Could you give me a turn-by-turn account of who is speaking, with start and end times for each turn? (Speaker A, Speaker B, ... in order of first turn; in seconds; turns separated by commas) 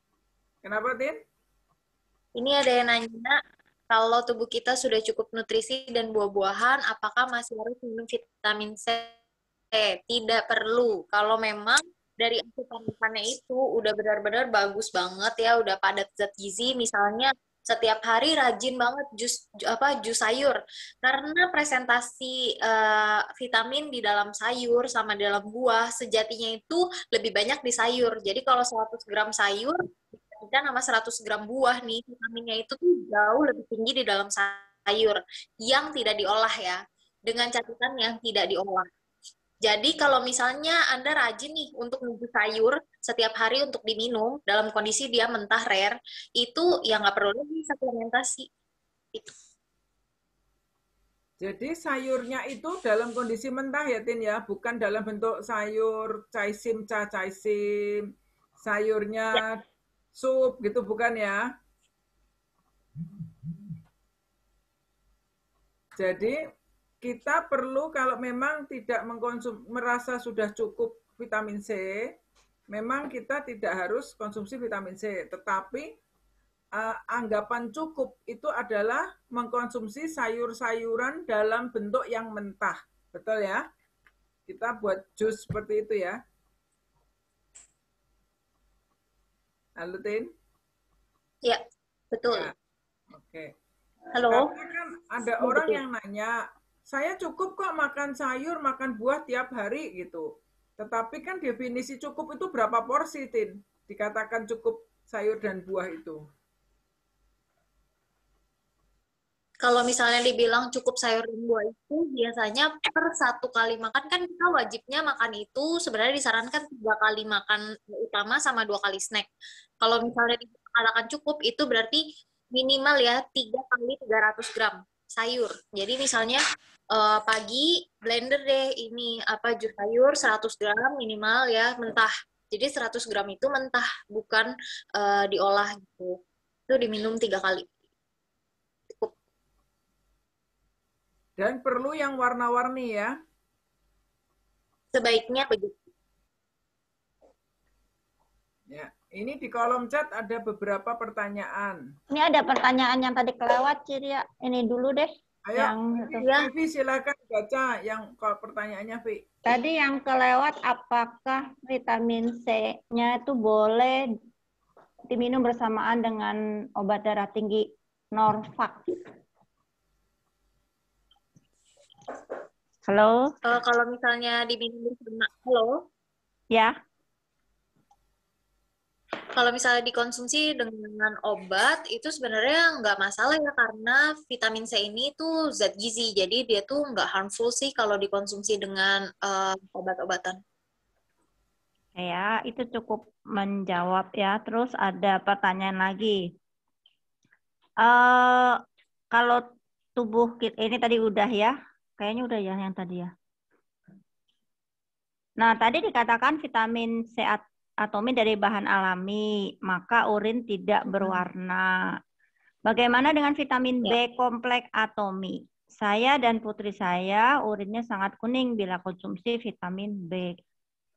Speaker A: 0.6-1.2, Speaker B: 2.4-3.4, Speaker B: 3.9-9.1, Speaker B: 9.7-38.9, Speaker B: 39.6-48.5, Speaker A: 51.4-58.0, Speaker A: 58.6-59.6, Speaker A: 60.1-61.5, Speaker A: 66.0-66.4, Speaker A: 67.0-72.0, Speaker A: 72.7-75.9, Speaker A: 76.8-83.6, Speaker A: 84.5-86.2, Speaker A: 89.8-90.3, Speaker B: 91.4-92.5, Speaker A: 93.1-93.5, Speaker B: 94.1-94.5, Speaker A: 94.3-106.2, Speaker B: 95.4-95.8, Speaker B: 109.6-119.3, Speaker B: 119.8-126.4, Speaker B: 126.9-136.2, Speaker B: 136.7-137.7, Speaker A: 141.4-143.1, Speaker B: 144.9-145.7, Speaker A: 148.7-151.8, Speaker C: 152.1-155.8, Speaker A: 155.4-159.2, Speaker B: 156.1-156.5, Speaker C: 159.4-164.0, Speaker C: 165.1-168.9, Speaker C: 172.8-173.3, Speaker B: 173.4-175.8, Speaker B: 179.3-190.4, Speaker C: 191.9-196.2, Speaker C: 197.8-198.6, Speaker C: 199.1-199.4, Speaker C: 200.0-203.1, Speaker C: 205.4-211.8, Speaker C: 212.7-220.4